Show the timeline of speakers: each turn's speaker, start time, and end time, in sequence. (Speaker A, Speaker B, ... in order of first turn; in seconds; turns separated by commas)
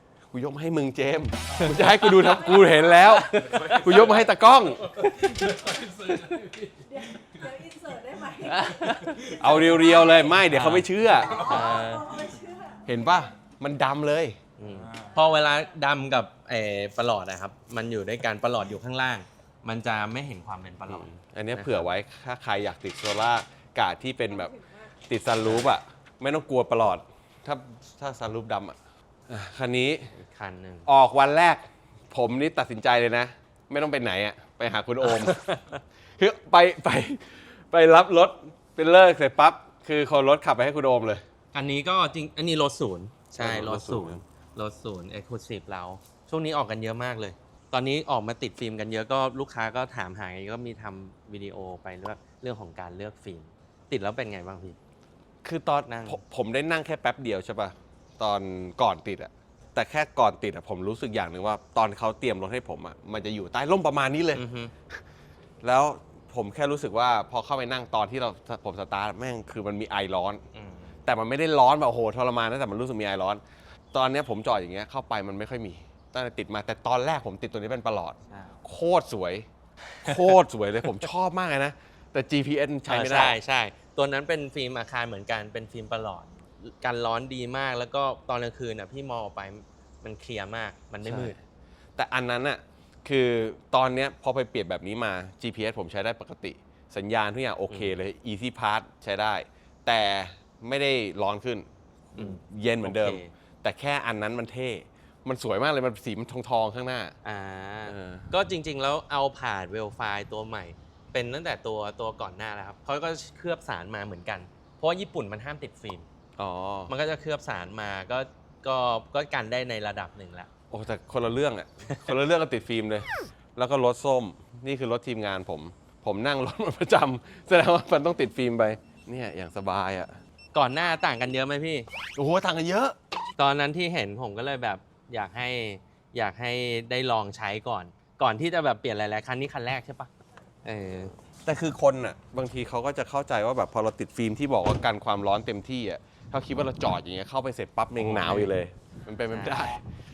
Speaker A: 0.3-6.5, Speaker B: 1.5-2.4, Speaker B: 3.0-4.0, Speaker B: 5.2-6.4, Speaker C: 6.8-10.2, Speaker B: 8.3-9.4, Speaker A: 9.2-11.7, Speaker B: 10.4-12.3, Speaker C: 11.3-12.8, Speaker A: 12.8-14.4, Speaker B: 14.6-21.9, Speaker A: 20.9-30.1, Speaker B: 30.1-30.9, Speaker A: 30.9-35.4, Speaker B: 35.0-35.8, Speaker A: 36.2-41.3, Speaker B: 41.5-54.8, Speaker A: 43.4-44.2, Speaker A: 55.4-65.0, Speaker B: 55.9-56.2, Speaker B: 64.3-64.7, Speaker A: 65.6-70.4, Speaker B: 70.5-71.0, Speaker A: 71.0-73.4, Speaker A: 73.9-79.5, Speaker B: 78.3-78.6, Speaker B: 79.9-80.3, Speaker A: 80.0-83.4, Speaker B: 82.9-91.4, Speaker A: 91.0-91.4, Speaker A: 92.0-107.2, Speaker B: 102.2-103.3, Speaker B: 107.2-116.1, Speaker A: 107.9-108.3, Speaker A: 116.4-116.9, Speaker B: 116.9-120.5, Speaker A: 120.7-130.2, Speaker B: 130.5-131.9, Speaker A: 132.2-133.0, Speaker B: 133.4-140.1, Speaker B: 140.6-141.2, Speaker A: 141.3-149.8, Speaker B: 147.9-148.5, Speaker B: 149.3-149.8